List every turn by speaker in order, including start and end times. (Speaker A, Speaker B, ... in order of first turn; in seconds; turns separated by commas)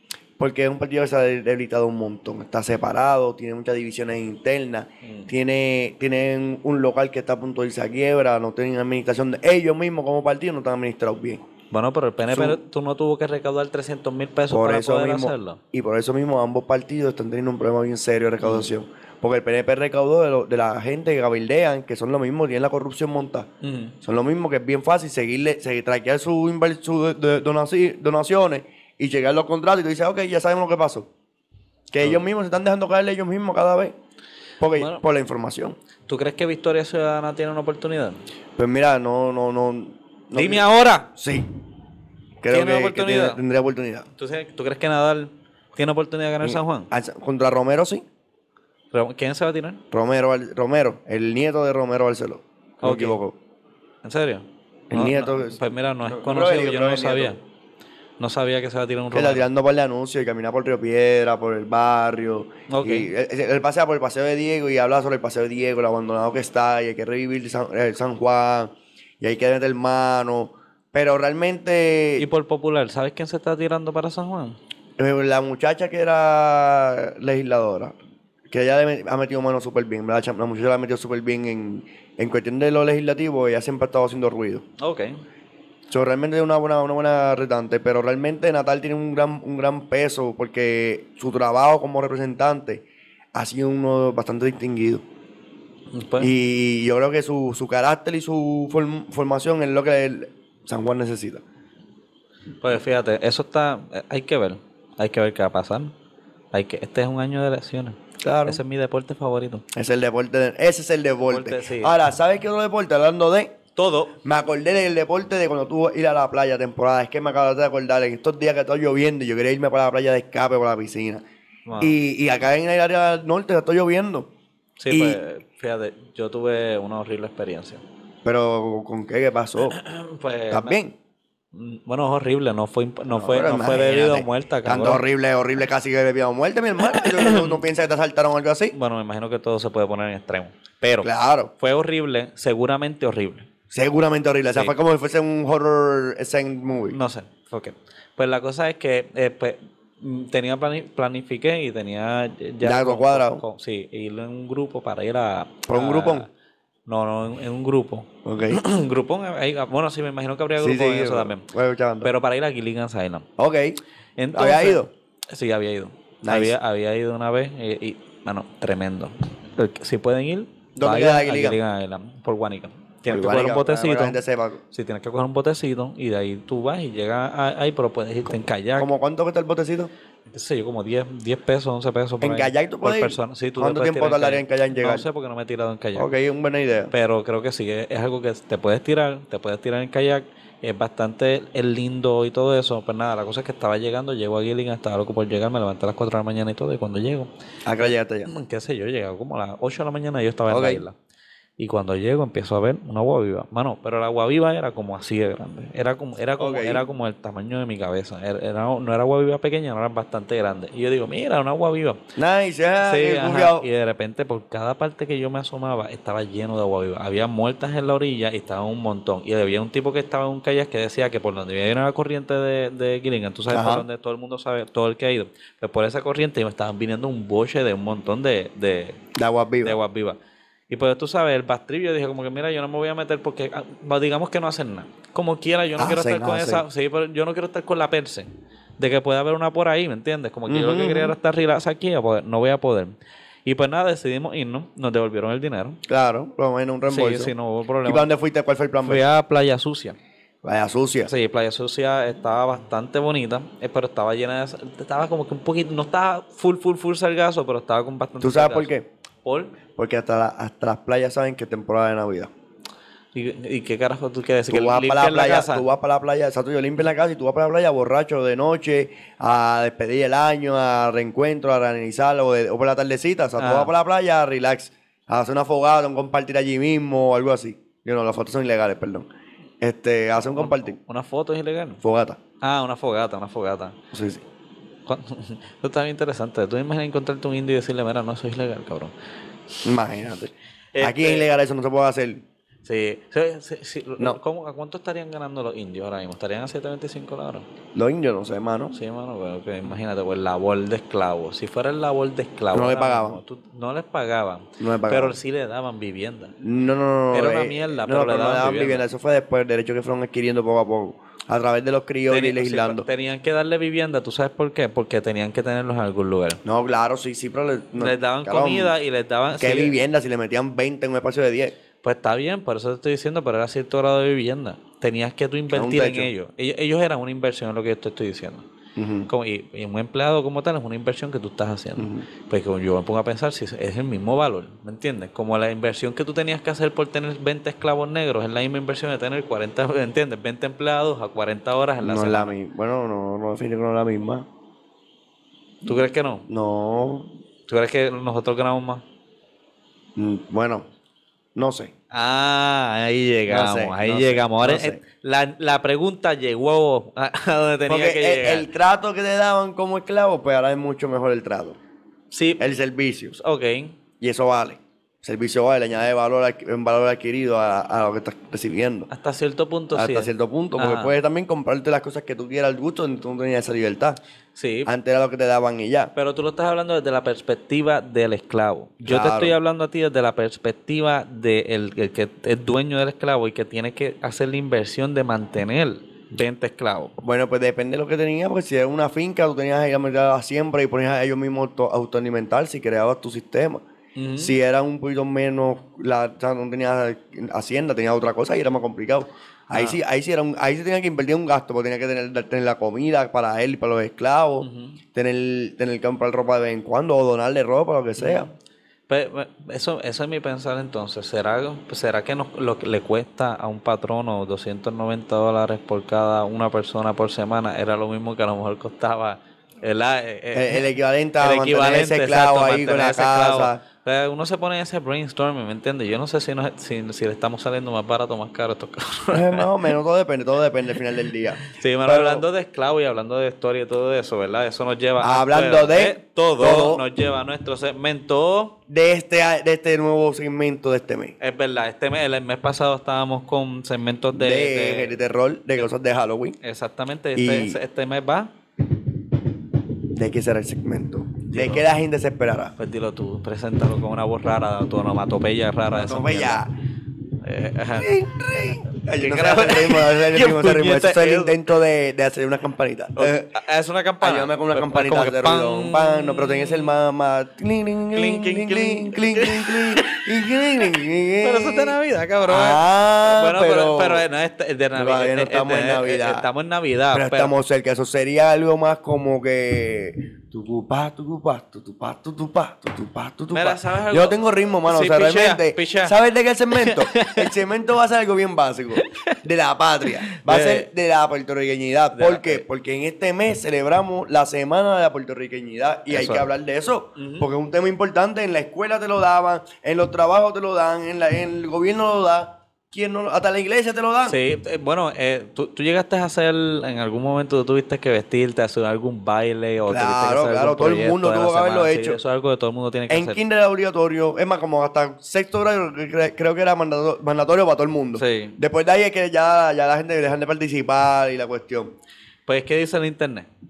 Speaker A: 0.4-11.4, Speaker B: 5.0-5.3, Speaker B: 11.7-15.6, Speaker A: 12.3-12.6, Speaker A: 14.5-23.5, Speaker B: 18.4-18.7, Speaker B: 23.6-24.0, Speaker A: 24.0-31.1, Speaker A: 31.9-33.9, Speaker A: 34.6-35.8, Speaker B: 34.7-35.0, Speaker B: 36.1-38.2, Speaker A: 38.6-41.5, Speaker B: 40.4-41.1, Speaker A: 42.4-44.1, Speaker B: 42.5-43.4, Speaker B: 44.2-46.9, Speaker A: 46.4-48.0, Speaker B: 48.9-49.8, Speaker A: 49.9-53.4, Speaker B: 52.8-53.2, Speaker B: 54.0-57.4, Speaker A: 54.9-57.4, Speaker B: 58.2-59.5, Speaker A: 59.1-72.3, Speaker B: 62.7-63.1, Speaker B: 72.2-74.6, Speaker A: 75.0-78.0, Speaker A: 78.5-84.7, Speaker B: 84.8-85.2, Speaker A: 85.9-95.0, Speaker B: 95.9-96.3, Speaker A: 96.2-101.4, Speaker B: 102.6-105.9, Speaker B: 106.5-109.6, Speaker A: 108.2-108.6, Speaker A: 109.7-113.6, Speaker B: 111.3-111.9, Speaker B: 113.8-114.2, Speaker A: 114.2-121.2, Speaker B: 121.7-122.0, Speaker A: 121.8-124.3, Speaker B: 124.8-127.8, Speaker A: 124.9-125.2, Speaker A: 128.2-129.8, Speaker B: 129.6-130.8, Speaker A: 130.5-130.9, Speaker B: 131.5-135.0, Speaker A: 133.1-138.8, Speaker B: 136.9-137.6, Speaker B: 138.7-143.5, Speaker A: 141.0-141.5, Speaker A: 143.7-147.0, Speaker B: 146.9-156.3, Speaker A: 152.6-153.4, Speaker A: 155.7-156.3, Speaker B: 156.9-161.4, Speaker A: 158.2-158.6, Speaker A: 160.6-162.1, Speaker B: 162.0-163.3, Speaker A: 163.4-163.8, Speaker B: 164.2-174.2, Speaker A: 164.3-164.9, Speaker A: 166.2-166.6, Speaker A: 170.8-171.6, Speaker A: 173.1-174.6, Speaker B: 174.7-178.9, Speaker A: 178.8-179.9, Speaker B: 180.3-186.1, Speaker A: 182.2-185.1, Speaker A: 186.0-186.9, Speaker B: 186.9-197.3, Speaker A: 197.7-198.3, Speaker B: 198.3-201.0, Speaker A: 200.5-200.8, Speaker B: 201.6-212.0, Speaker A: 206.4-206.8, Speaker A: 212.2-213.7, Speaker B: 212.8-229.0, Speaker A: 223.5-223.9, Speaker A: 229.2-229.8, Speaker B: 229.6-230.2, Speaker B: 230.7-242.9, Speaker A: 235.8-236.6, Speaker A: 240.5-241.2, Speaker B: 243.5-245.8, Speaker A: 245.9-247.3, Speaker B: 246.9-248.1, Speaker A: 247.8-249.0, Speaker B: 248.8-250.0, Speaker A: 250.4-251.1, Speaker B: 251.1-258.7, Speaker A: 258.2-258.9, Speaker B: 259.2-259.6, Speaker A: 259.8-262.3, Speaker B: 263.1-265.7, Speaker A: 264.5-279.1, Speaker B: 273.4-273.7, Speaker A: 279.6-280.8, Speaker B: 280.2-281.8, Speaker A: 281.8-282.2, Speaker B: 282.4-283.8, Speaker A: 283.9-284.2, Speaker B: 284.9-288.9, Speaker A: 289.6-292.2, Speaker B: 290.7-291.3, Speaker B: 292.6-297.5, Speaker A: 297.8-298.8, Speaker B: 298.7-306.4, Speaker A: 302.5-303.2, Speaker A: 304.6-305.2, Speaker A: 306.4-312.9, Speaker B: 307.1-308.9, Speaker B: 312.1-316.4, Speaker A: 316.4-318.7, Speaker B: 317.8-319.8, Speaker A: 319.4-321.5, Speaker B: 321.8-328.5, Speaker A: 325.5-326.1, Speaker A: 328.8-329.1, Speaker B: 329.1-342.4, Speaker A: 331.8-332.1, Speaker A: 341.8-344.3, Speaker B: 345.6-346.3, Speaker A: 346.3-347.1, Speaker B: 347.5-348.8, Speaker A: 350.0-350.7, Speaker A: 351.4-351.7, Speaker B: 351.9-358.5, Speaker A: 353.3-354.8, Speaker A: 357.7-361.6, Speaker B: 362.1-362.4, Speaker A: 362.4-363.2, Speaker B: 363.1-363.8, Speaker A: 364.0-368.9, Speaker B: 368.9-370.9, Speaker A: 369.7-374.0, Speaker B: 374.4-374.7, Speaker A: 374.7-375.9, Speaker B: 375.9-386.9, Speaker A: 378.8-379.4, Speaker A: 387.0-393.6, Speaker B: 394.0-394.4, Speaker A: 394.2-408.3, Speaker B: 399.5-399.8, Speaker B: 404.4-404.8, Speaker B: 408.0-408.3, Speaker B: 408.9-420.7, Speaker A: 420.3-423.6, Speaker B: 421.2-429.5, Speaker A: 429.1-432.2, Speaker B: 431.4-438.6, Speaker A: 435.0-436.8, Speaker A: 438.7-441.1, Speaker B: 441.2-445.0, Speaker A: 444.1-446.4, Speaker B: 446.4-448.3, Speaker A: 447.2-447.6, Speaker A: 449.9-452.6, Speaker B: 451.3-451.7, Speaker B: 452.6-456.4, Speaker A: 455.7-456.5, Speaker B: 457.2-457.9, Speaker A: 457.8-463.3, Speaker B: 459.0-461.4, Speaker B: 463.0-466.7, Speaker A: 464.0-471.7, Speaker B: 467.9-477.3, Speaker A: 472.2-474.1, Speaker A: 474.8-476.3, Speaker A: 476.9-504.2, Speaker B: 483.3-485.9, Speaker B: 486.5-487.3, Speaker B: 488.8-489.1, Speaker B: 490.1-490.7, Speaker B: 491.9-492.4, Speaker B: 495.9-496.3, Speaker B: 497.0-497.3, Speaker B: 504.1-513.2, Speaker A: 509.7-512.0, Speaker A: 512.9-521.8, Speaker B: 518.0-518.4, Speaker B: 522.3-523.3